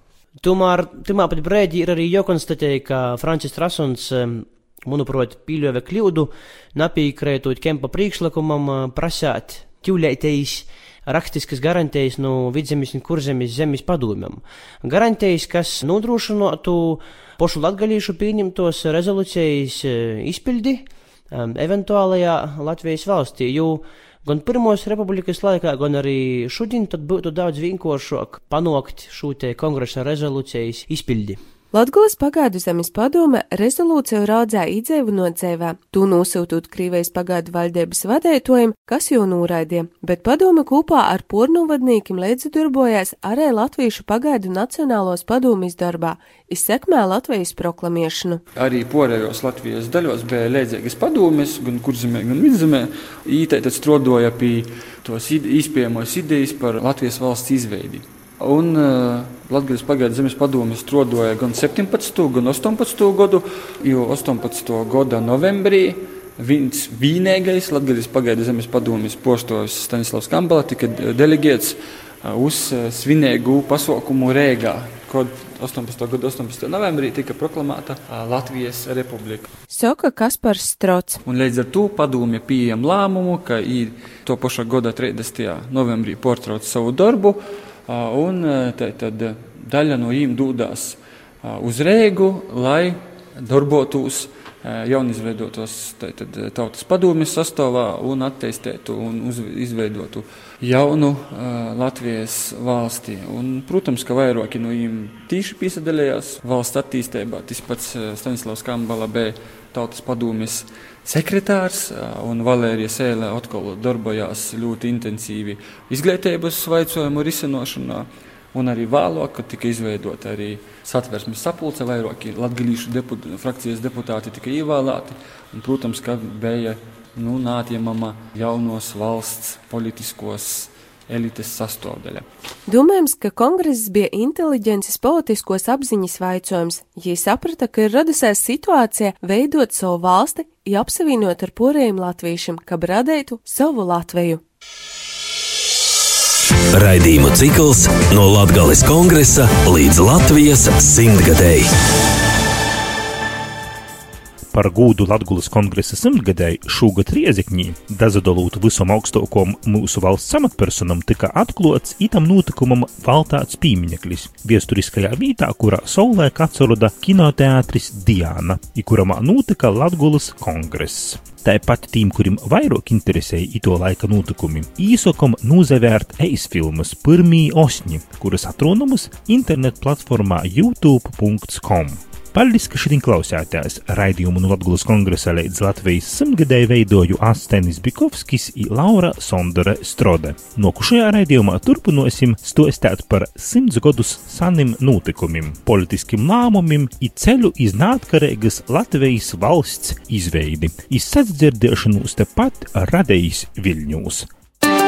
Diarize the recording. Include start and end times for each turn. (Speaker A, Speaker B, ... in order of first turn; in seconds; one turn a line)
Speaker A: 0.4-31.4
Speaker B: 31.7-48.4
Speaker C: 48.5-79.5
Speaker B: 79.7-81.2
Speaker C: 81.2-132.2
Speaker B: 132.7-144.4
Speaker D: 146.7-151.7
Speaker E: 154.5-204.3